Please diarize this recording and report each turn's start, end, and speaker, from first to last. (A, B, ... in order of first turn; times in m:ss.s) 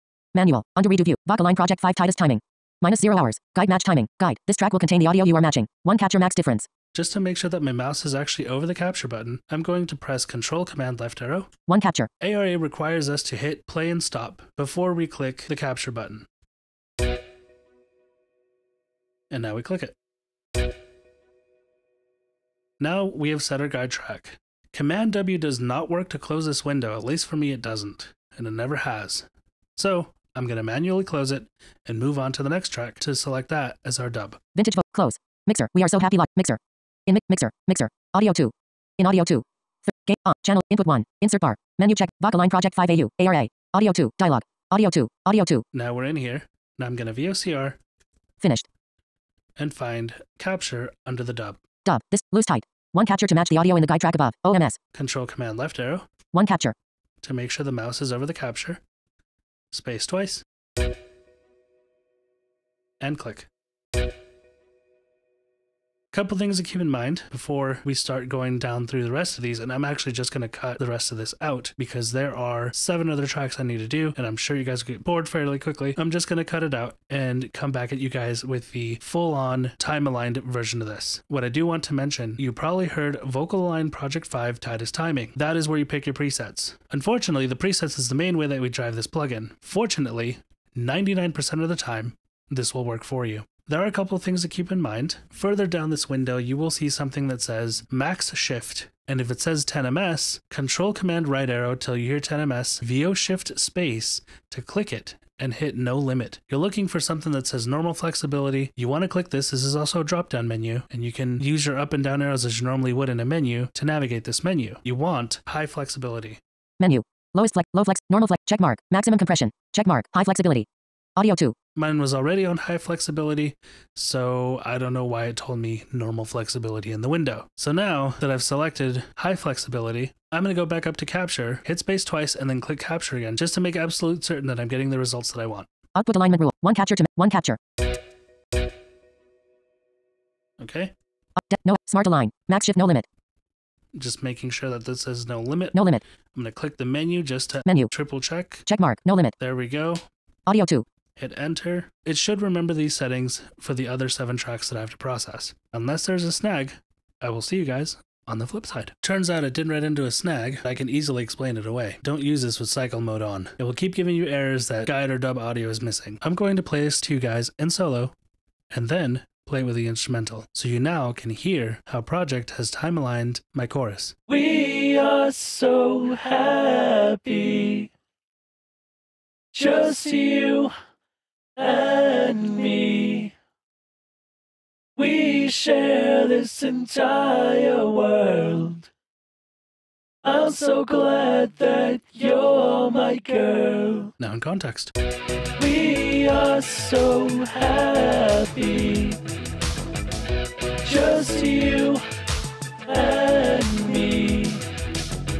0:00.3-0:06.7 A
0:06.9-0:11.5 B
0:11.7-0:12.1 A
0:12.2-0:16.3 B
0:19.3-0:19.9 B
0:22.8-0:34.4 B
0:34.5-0:45.6 A
0:45.7-0:47.8 B
0:48.4-0:48.7 A
0:49.6-0:51.6 B
0:51.8-0:54.8 A
0:54.9-0:56.1 B
0:56.3-0:56.7 A
0:57.2-0:58.8 B
0:59.7-1:00.4 B
1:03.0-1:03.5 B
1:06.1-1:56.4 B
1:56.8-2:01.5 A
2:01.8-2:15.7 B
2:16.0-2:17.6 A
2:20.6-2:20.9 B
2:21.4-2:23.1 A
2:23.9-2:28.7 B
2:25.7-2:26.0 A
2:27.6-2:27.9 A
2:28.6-2:29.4 A
2:29.4-2:30.0 B
2:30.5-2:30.8 A
2:31.2-2:48.1 B
2:48.7-2:54.3 B
2:54.3-2:57.9 C
2:59.5-3:00.7 C
3:01.6-3:03.3 C
3:05.0-3:08.9 C
3:10.2-3:14.1 C
3:14.2-3:14.9 B
3:15.6-3:19.2 C
3:20.8-3:22.0 C
3:22.9-3:24.6 C